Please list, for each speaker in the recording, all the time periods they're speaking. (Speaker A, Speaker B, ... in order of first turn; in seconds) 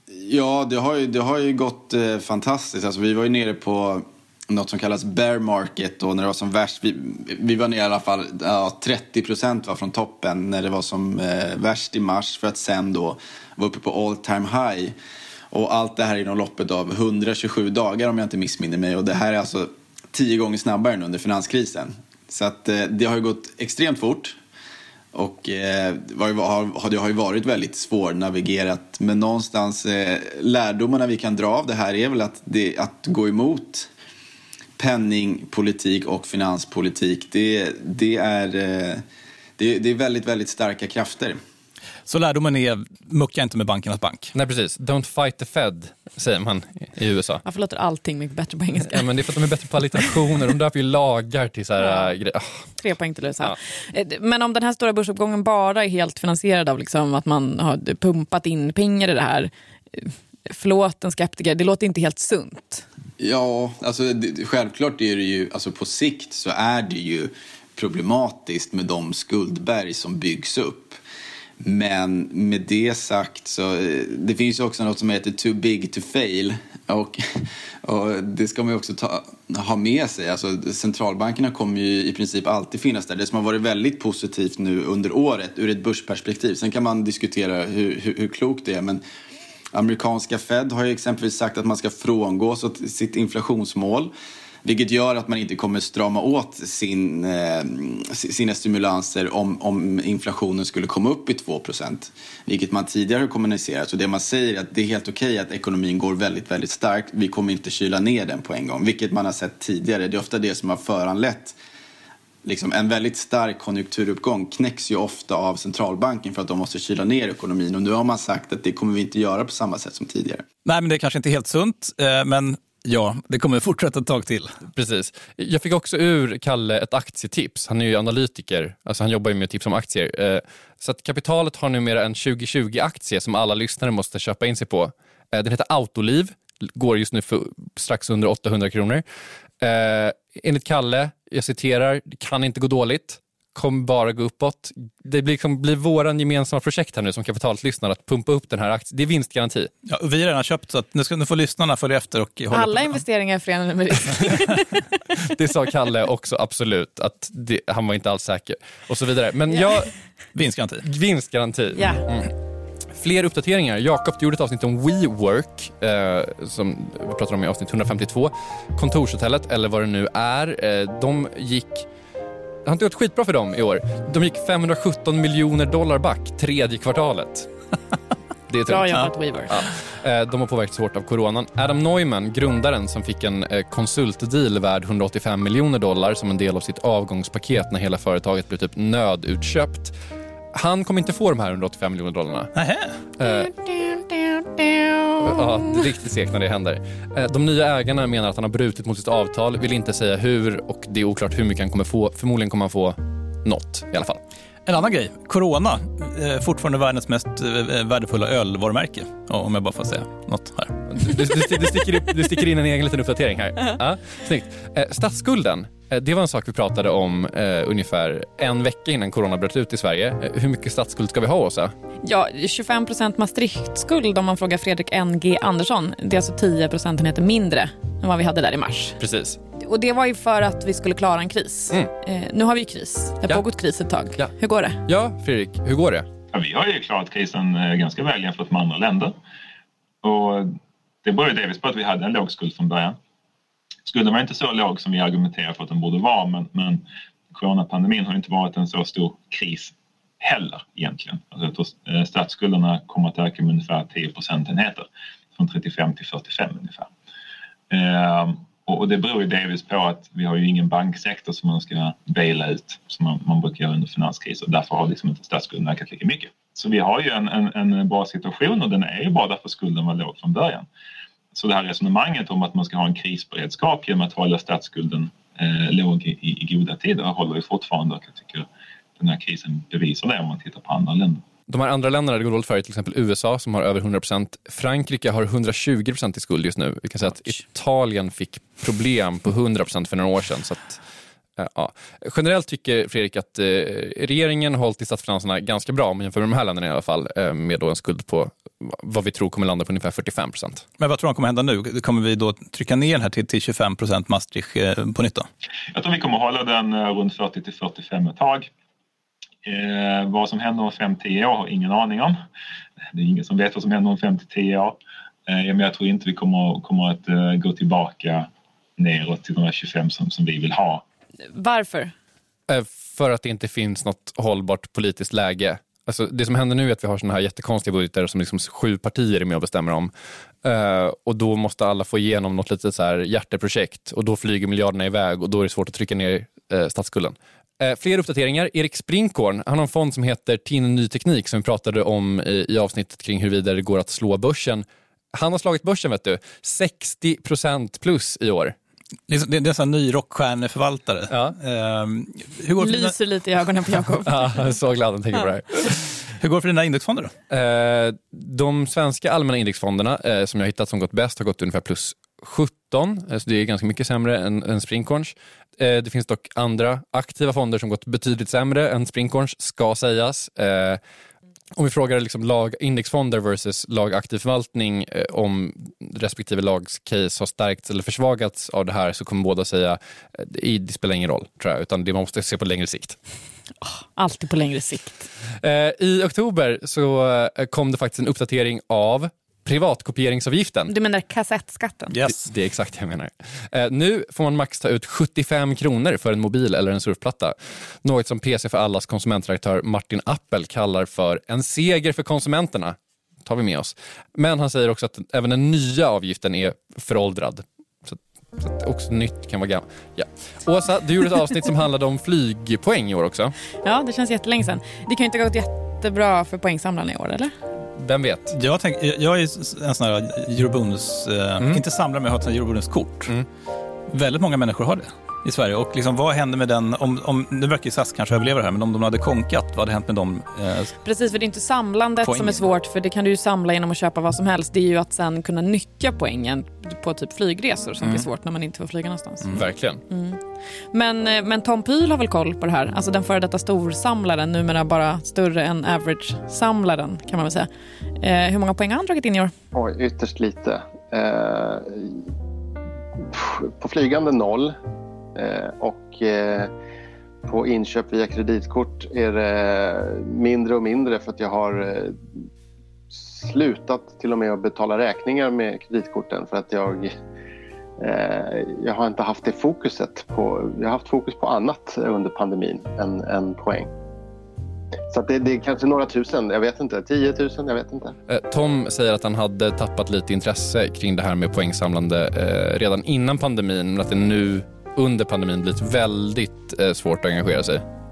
Speaker A: 0.1-14.9, 15.5-24.4, 25.1-33.9, 34.8-39.0, 39.6-41.4, 63.2-71.0, 71.6-77.2, 77.8-89.0, 89.7-94.1, 94.7-111.6, 112.5-120.4
Speaker B: 42.1-44.3, 120.7-124.5, 149.9-153.0, 160.3-160.8, 192.6-192.9, 204.7-210.8, 300.8-305.3, 349.1-352.9, 356.2-357.1, 391.9-392.2, 418.3-423.1, 423.9-430.8, 432.0-432.4
Speaker C: 44.3-47.4, 48.9-52.6, 124.7-139.0, 139.6-149.7, 155.2-159.9, 160.8-162.3, 162.9-171.9, 172.7-177.5, 178.5-189.9, 190.5-192.5, 193.2-193.7, 195.2-204.2, 210.9-221.7, 229.0-229.4, 234.8-236.1, 281.5-290.8, 291.4-300.6, 322.5-329.9, 330.4-348.6, 351.1-351.4, 354.1-355.8, 357.3-370.8, 371.6-383.0, 385.4-390.7, 392.1-413.4, 417.8-418.3, 439.3-439.8, 478.1-487.6
Speaker D: 47.5-49.1, 51.8-52.1, 52.8-62.9, 152.5-154.8, 161.8-162.0, 178.7-179.6, 222.0-229.0, 229.6-234.8, 321.3-321.9, 352.6-354.3, 383.6-385.1, 390.7-391.9, 413.6-417.3, 430.8-439.3, 439.9-440.2, 440.7-449.3
Speaker E: 236.3-239.2, 240.0-243.0, 243.9-254.9, 255.4-256.9, 257.7-270.7, 271.3-278.5, 279.0-281.2, 305.7-308.5, 309.4-312.2, 312.9-320.8
Speaker F: 449.6-452.0, 453.1-454.6, 455.2-456.5, 457.2-462.0, 462.9-466.9, 467.8-473.7, 474.9-477.9